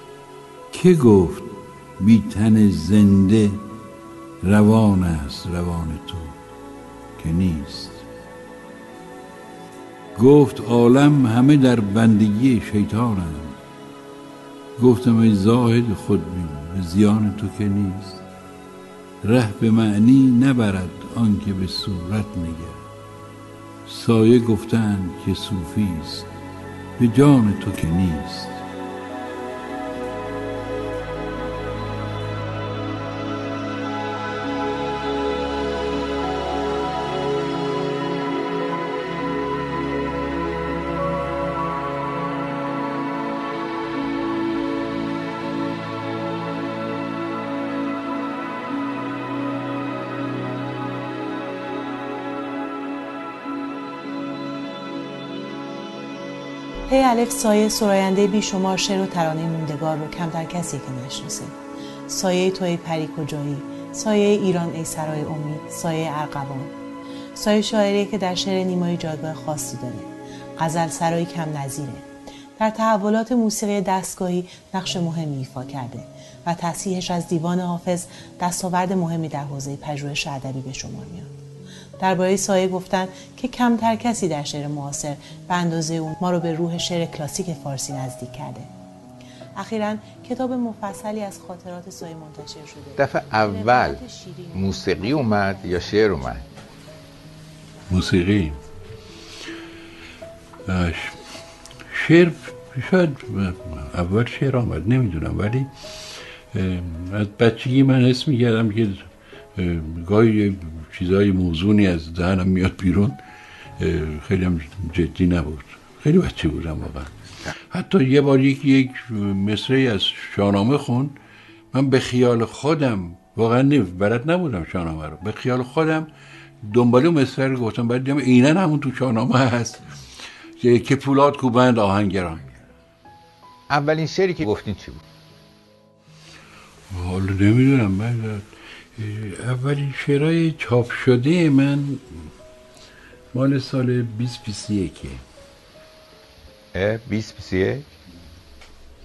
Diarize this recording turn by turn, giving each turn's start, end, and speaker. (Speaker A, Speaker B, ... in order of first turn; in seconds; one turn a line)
Speaker A: 0.7-3.6
Speaker A: 4.4-6.4
Speaker A: 7.2-8.0
Speaker A: 10.2-13.6
Speaker A: 14.8-18.2
Speaker A: 19.2-22.8
Speaker A: 23.9-26.3
Speaker A: 27.0-28.6
Speaker B: 56.9-61.5
Speaker B: 62.1-66.7
Speaker B: 67.3-72.1
Speaker B: 72.6-81.3
Speaker B: 82.0-88.7
Speaker B: 89.5-95.7
Speaker C: 93.0-94.0
Speaker C: 94.5-96.4
Speaker A: 97.9-98.6
Speaker A: 100.7-101.2
Speaker A: 101.9-105.7
Speaker A: 106.5-113.2
Speaker A: 113.8-117.1
Speaker A: 117.7-121.2
Speaker A: 121.7-126.1
Speaker A: 126.6-129.8
Speaker A: 130.6-132.4
Speaker C: 133.7-135.0
Speaker A: 136.9-142.1
Speaker A: 143.3-145.2
Speaker C: 146.7-147.9